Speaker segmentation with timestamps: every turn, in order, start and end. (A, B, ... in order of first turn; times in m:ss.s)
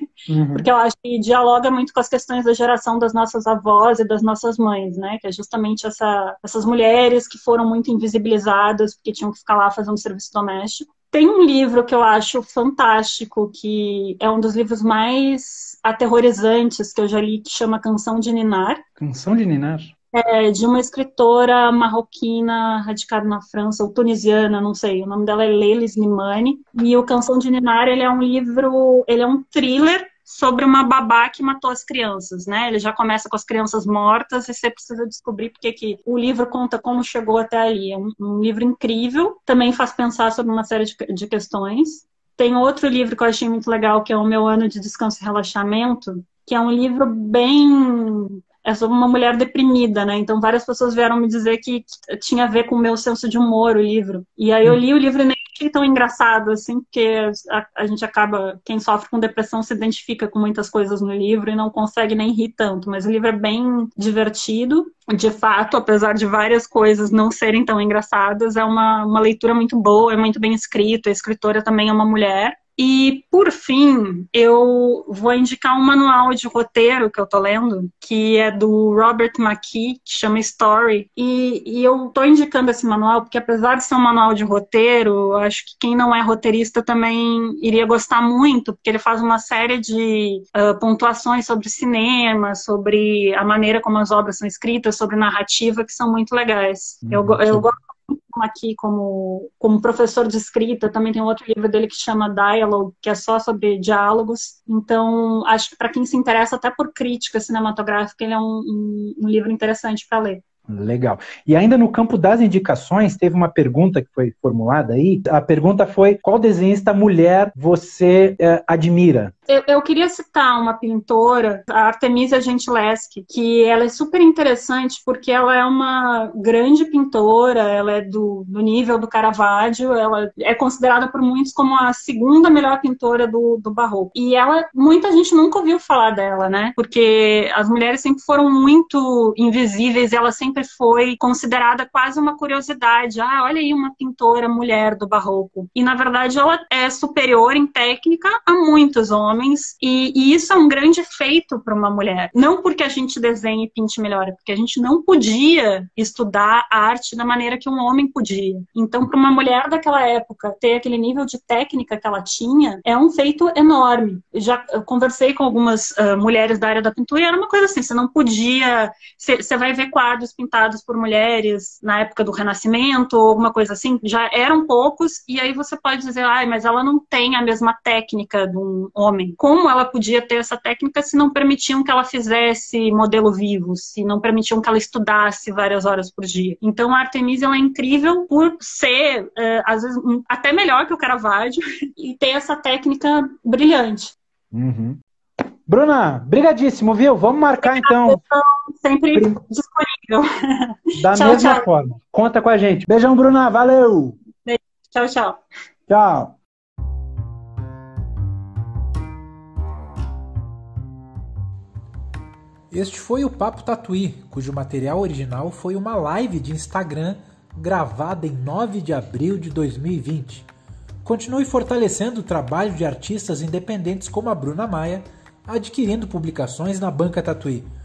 0:00.3-0:00.7 A
0:00.5-0:18.8 B
0:19.0-0:19.9 A
0:20.1-1:50.4 B
1:37.0-1:37.7 A
1:50.7-1:59.3 A
1:59.5-3:14.2 B
3:14.5-3:15.0 A
3:15.7-3:18.2 A
3:17.6-3:21.7 B
3:21.0-3:24.2 A
3:24.4-3:25.4 B
3:25.9-3:26.4 A
3:32.7-3:40.5 C
3:41.0-3:47.7 C